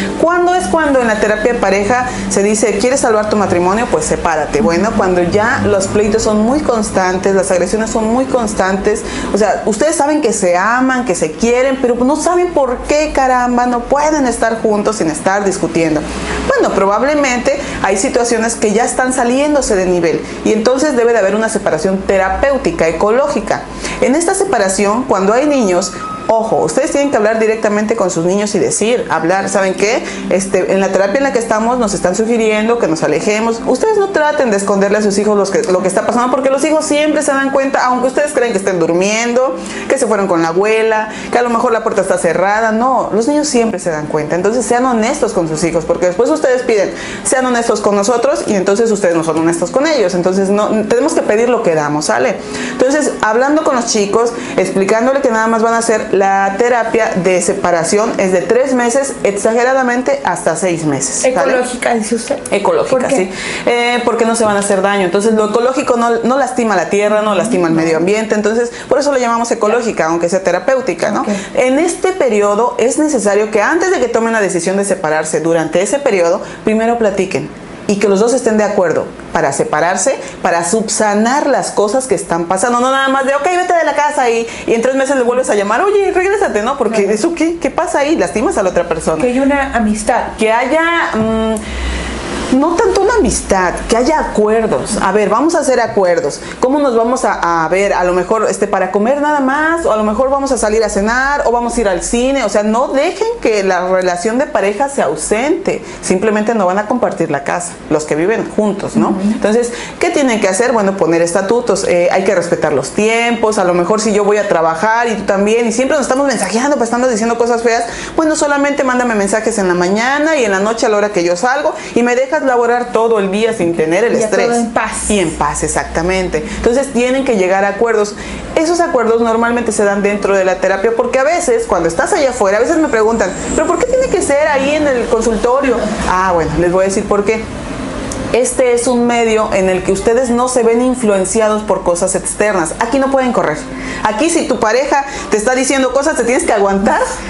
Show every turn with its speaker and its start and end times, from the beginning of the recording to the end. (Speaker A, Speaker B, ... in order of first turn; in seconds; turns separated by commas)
Speaker A: 0.2-61.6, Speaker B: 61.2-63.3, Speaker A: 62.5-89.3, Speaker B: 67.1-68.0, Speaker B: 71.1-71.4, Speaker B: 86.9-87.2, Speaker B: 89.2-90.3, Speaker A: 90.4-91.6, Speaker A: 92.5-137.4, Speaker B: 109.0-109.4, Speaker B: 124.1-125.2, Speaker A: 138.3-147.1